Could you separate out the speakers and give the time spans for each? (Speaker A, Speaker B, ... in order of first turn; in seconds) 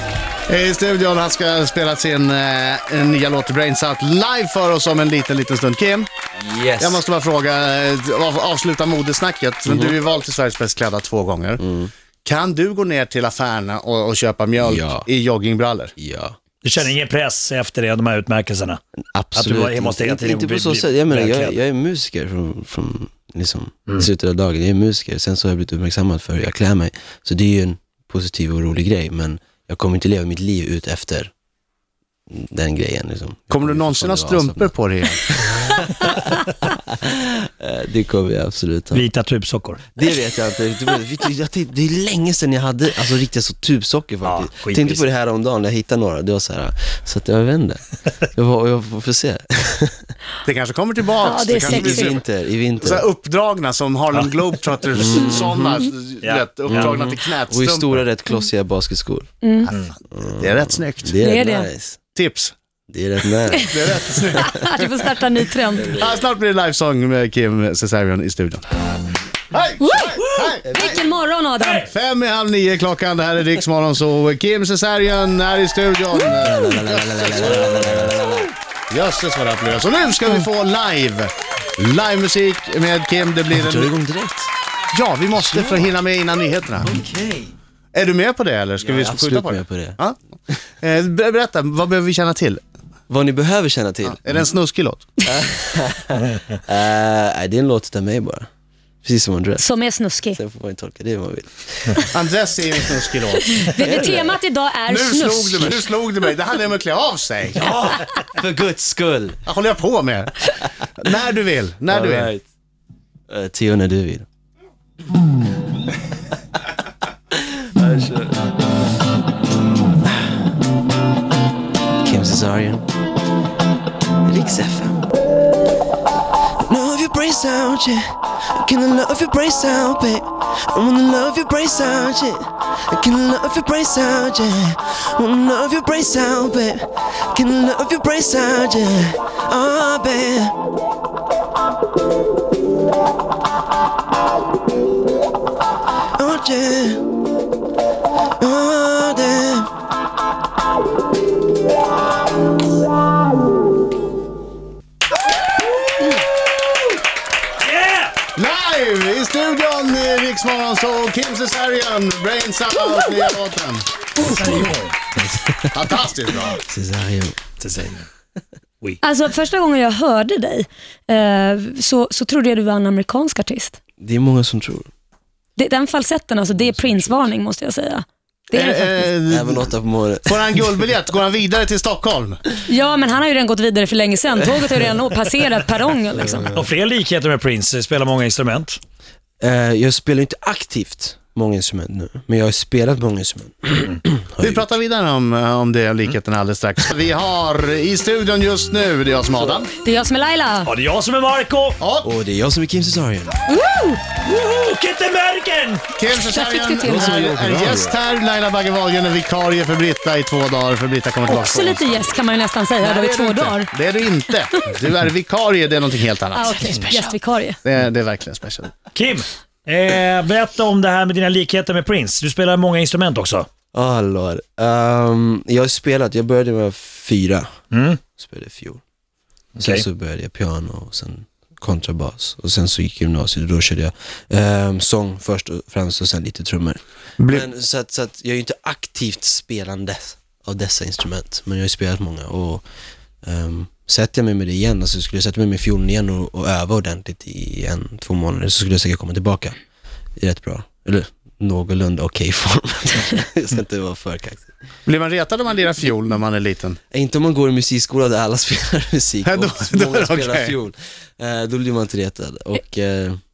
Speaker A: 0.5-6.1, 6.8-11.6, 12.2-15.9, 33.5-35.2, 50.4-52.2, 52.8-58.0, 59.7-61.1, 62.1-62.5, 63.7-65.1, 65.8-68.6, 69.5-70.8, 71.8-77.8, 78.9-83.9, 84.9-86.9, 87.9-90.2, 90.8-92.6, 94.0-95.1, 102.1-103.7, 104.9-107.7, 109.5-112.3, 158.4-163.9, 165.7-166.6, 178.5-182.4, 194.4-199.7, 201.8-202.1, 206.0-212.2, 212.8-216.5, 217.6-218.7, 237.2-237.5, 254.9-256.8, 259.2-260.6
Speaker B: 6.4-7.0, 9.7-10.0, 11.6-11.9, 14.6-15.1, 16.0-16.4, 19.1-31.3, 32.3-34.7, 35.3-39.0, 39.9-50.1, 51.6-53.1, 54.9-55.9, 56.7-59.3, 60.1-62.0, 62.9-63.8, 65.8-66.1, 70.6-71.1, 76.4-78.5, 83.5-84.5, 85.4-86.0, 86.8-87.5, 88.8-90.0, 93.1-94.4, 95.2-98.5, 99.0-99.7, 100.3-102.1, 103.8-104.4, 107.6-109.4, 111.9-112.5, 113.3-114.3, 117.3-118.4, 120.0-120.4, 122.0-122.9, 124.2-125.1, 126.6-140.6, 146.2-147.1, 148.4-149.7, 164.2-164.6, 165.1-165.8, 166.6-167.4, 174.0-174.9, 176.5-177.3, 179.3-180.8, 186.2-186.6, 189.4-194.7, 199.3-199.7, 202.0-203.4, 206.8-208.0, 216.6-217.0, 223.7-227.5, 228.1-228.8, 229.6-242.6, 243.2-249.6, 250.2-254.6, 256.9-263.2
Speaker C: 16.6-18.8, 19.4-21.6, 38.9-39.9, 44.2-45.0, 56.2-57.1, 77.7-78.1, 157.6-158.2, 164.2-164.9, 167.6-168.1, 186.5-188.8, 200.7-201.8, 204.2-205.9, 218.9-223.5, 227.7-228.0, 229.6-229.8
Speaker D: 51.2-52.2, 59.4-59.7, 61.2-61.7, 63.5-65.9, 69.8-71.9, 99.6-100.4, 103.5-105.9, 169.0-173.8, 175.6-179.1, 182.7-186.5, 199.8-200.7, 203.5-204.0, 206.1-207.3, 211.3-213.7, 214.3-214.7, 216.3-217.6